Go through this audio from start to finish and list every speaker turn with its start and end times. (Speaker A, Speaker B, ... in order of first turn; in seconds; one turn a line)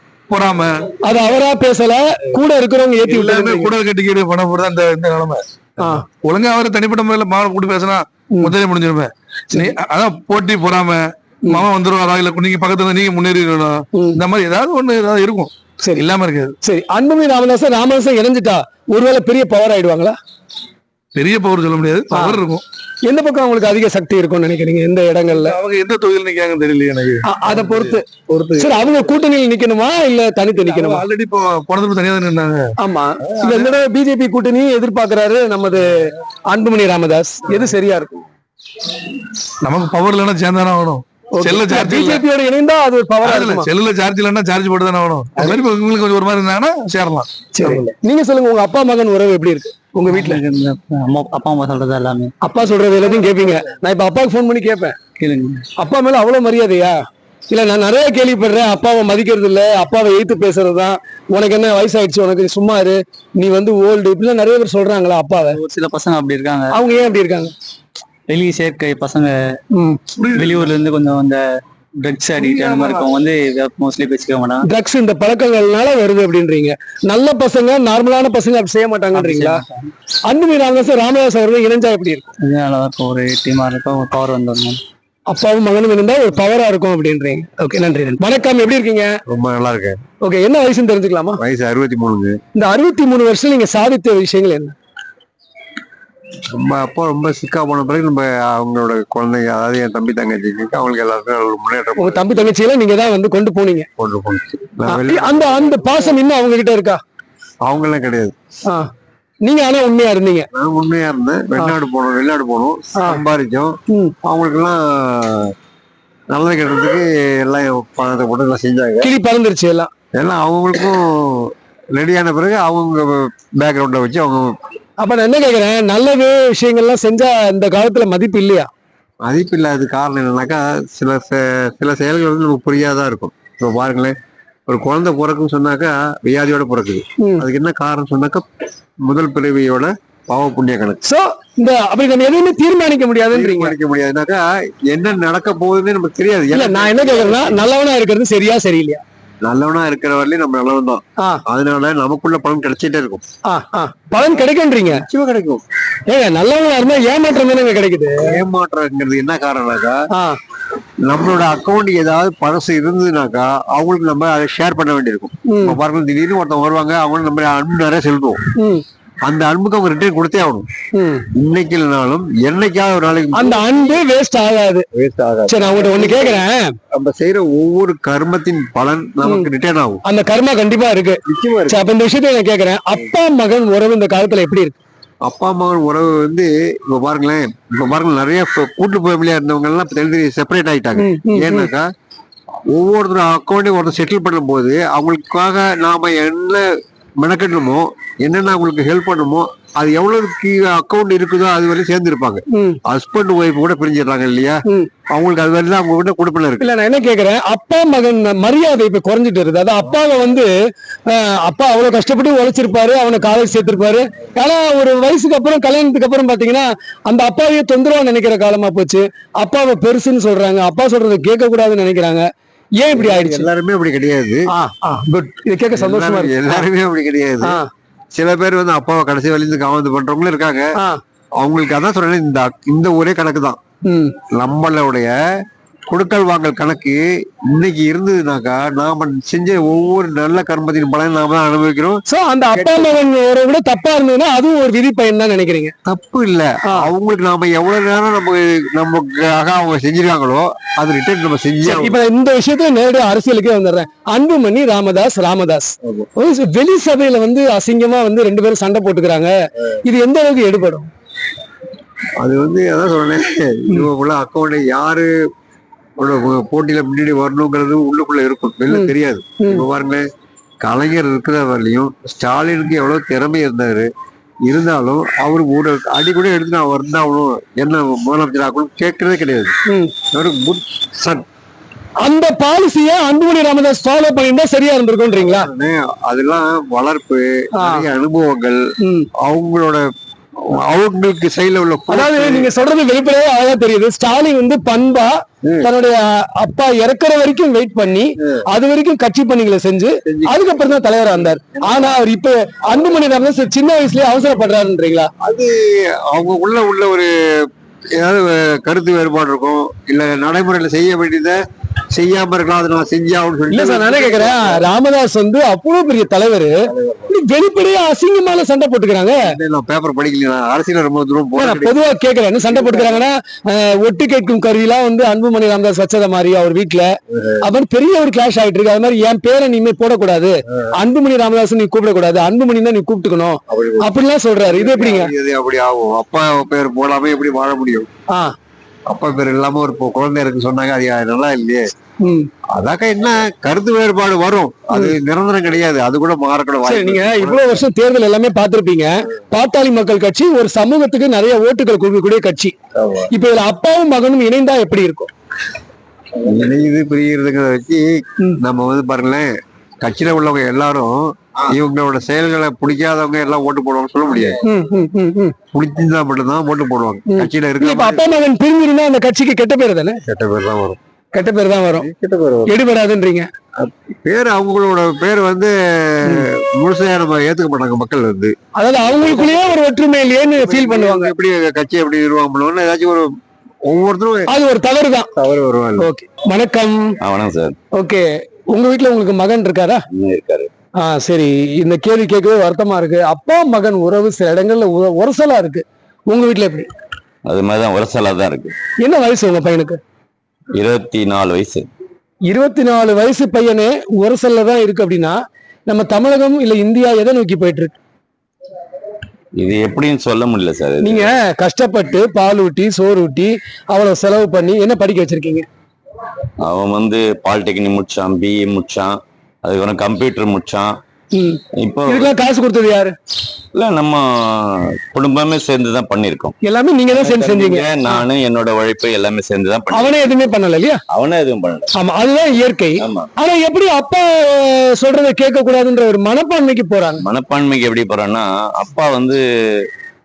Speaker A: 0.3-0.9
Speaker B: 1.0-3.7
Speaker A: 3.0-16.5
Speaker B: 16.6-20.1
Speaker A: 21.1-22.6
Speaker B: 22.1-22.4
Speaker B: 23.0-25.6
Speaker A: 25.3-28.9
Speaker B: 27.3-28.0
Speaker B: 28.6-31.0
Speaker A: 30.6-32.7
Speaker B: 32.8-38.2
Speaker A: 33.3-33.7
Speaker A: 39.6-42.2
Speaker B: 41.4-43.7
Speaker A: 43.2-47.8
Speaker B: 47.5-50.4
Speaker C: 50.1-52.3
Speaker B: 52.4-54.9
Speaker C: 55.2-55.6
Speaker B: 55.8-57.0
Speaker B: 57.5-65.6
Speaker C: 65.5-66.7
Speaker B: 66.7-67.5
Speaker C: 68.3-69.6
Speaker B: 69.7-70.0
Speaker A: 70.2-70.7
Speaker C: 70.3-71.4
Speaker C: 72.0-74.7
Speaker A: 72.3-73.1
Speaker B: 74.6-79.6
Speaker C: 79.1-79.9
Speaker B: 80.3-82.3
Speaker C: 82.4-84.8
Speaker B: 85.3-89.1
Speaker D: 89.3-90.0
Speaker B: 90.2-91.4
Speaker D: 91.4-92.4
Speaker B: 92.5-94.7
Speaker D: 96.5-102.5
Speaker B: 102.0-103.9
Speaker D: 104.0-106.2
Speaker B: 104.9-107.0
Speaker D: 107.6-108.3
Speaker B: 109.4-110.5
Speaker D: 110.5-115.5
Speaker B: 113.0-113.2
Speaker B: 113.9-114.1
Speaker D: 116.3-119.1
Speaker B: 119.0-119.9
Speaker D: 120.1-124.5
Speaker B: 125.0-128.7
Speaker D: 129.2-134.2
Speaker D: 134.7-138.4
Speaker B: 137.2-137.4
Speaker D: 139.0-141.0
Speaker B: 141.0-143.7
Speaker D: 143.3-147.7
Speaker B: 146.5-149.0
Speaker D: 149.4-153.2
Speaker B: 153.5-155.0
Speaker D: 154.8-155.6
Speaker B: 156.1-158.4
Speaker D: 158.2-160.0
Speaker B: 160.1-160.4
Speaker D: 161.0-168.4
Speaker B: 165.5-165.8
Speaker B: 168.6-168.8
Speaker D: 169.2-170.7
Speaker B: 170.9-171.3
Speaker D: 171.3-174.0
Speaker B: 173.3-174.8
Speaker D: 174.9-180.0
Speaker B: 175.5-176.8
Speaker B: 180.0-184.8
Speaker D: 181.2-181.8
Speaker D: 185.2-191.8
Speaker B: 191.0-191.7
Speaker D: 192.7-196.7
Speaker D: 197.2-204.6
Speaker B: 202.5-202.8
Speaker D: 205.1-206.7
Speaker B: 206.6-210.5
Speaker B: 211.1-222.2
Speaker B: 222.8-223.5
Speaker D: 222.9-224.5
Speaker B: 224.5-226.7
Speaker D: 225.7-227.6
Speaker D: 228.1-230.7
Speaker D: 231.4-233.6
Speaker B: 233.8-234.2
Speaker D: 234.3-242.0
Speaker B: 242.1-245.7
Speaker D: 242.5-242.9
Speaker D: 245.8-252.0
Speaker B: 251.6-260.9
Speaker D: 262.2-265.1
Speaker D: 266.0-270.1
Speaker B: 268.7-269.6
Speaker D: 270.6-273.9
Speaker D: 274.4-279.5
Speaker B: 279.7-279.9
Speaker D: 280.1-281.2
Speaker B: 282.0-285.5
Speaker D: 285.2-288.6
Speaker B: 287.6-287.9
Speaker B: 288.8-289.1
Speaker D: 289.2-289.9
Speaker D: 290.4-292.5
Speaker B: 291.9-305.1
Speaker D: 295.4-295.7
Speaker D: 300.0-300.4
Speaker D: 301.1-302.0
Speaker D: 305.2-311.4
Speaker D: 311.9-314.7
Speaker B: 313.5-316.6
Speaker D: 316.7-317.1
Speaker B: 317.1-319.2
Speaker D: 319.2-321.7
Speaker B: 321.4-326.9
Speaker D: 322.5-323.0
Speaker D: 327.1-327.4
Speaker B: 327.4-335.1
Speaker D: 333.5-337.9
Speaker D: 338.9-341.7
Speaker B: 342.0-342.3
Speaker D: 342.5-347.6
Speaker B: 344.7-344.9
Speaker B: 346.6-352.5
Speaker D: 352.8-353.1
Speaker B: 353.1-355.1
Speaker D: 356.2-364.4
Speaker B: 364.4-365.3
Speaker D: 365.5-368.0
Speaker B: 367.1-370.0
Speaker D: 370.1-370.8
Speaker B: 371.1-371.9
Speaker D: 371.7-372.6
Speaker B: 372.5-373.3
Speaker D: 373.6-378.3
Speaker B: 378.6-381.1
Speaker D: 378.8-379.6
Speaker D: 380.3-383.1
Speaker D: 383.6-384.3
Speaker B: 384.3-385.1
Speaker D: 385.1-385.9
Speaker B: 385.8-387.0
Speaker E: 387.0-387.6
Speaker B: 387.7-389.8
Speaker E: 389.9-390.5
Speaker B: 390.8-396.7
Speaker E: 397.3-398.5
Speaker B: 398.8-399.8
Speaker E: 400.6-401.7
Speaker B: 402.3-405.2
Speaker B: 405.7-407.7
Speaker E: 409.4-411.1
Speaker B: 410.8-415.4
Speaker E: 416.4-418.9
Speaker E: 419.4-420.7
Speaker B: 421.1-422.9
Speaker E: 421.6-422.1
Speaker E: 423.5-426.3
Speaker B: 426.4-428.0
Speaker E: 426.9-430.1
Speaker B: 429.7-430.8
Speaker E: 430.9-431.7
Speaker B: 431.7-437.0
Speaker E: 432.8-433.1
Speaker E: 437.0-439.6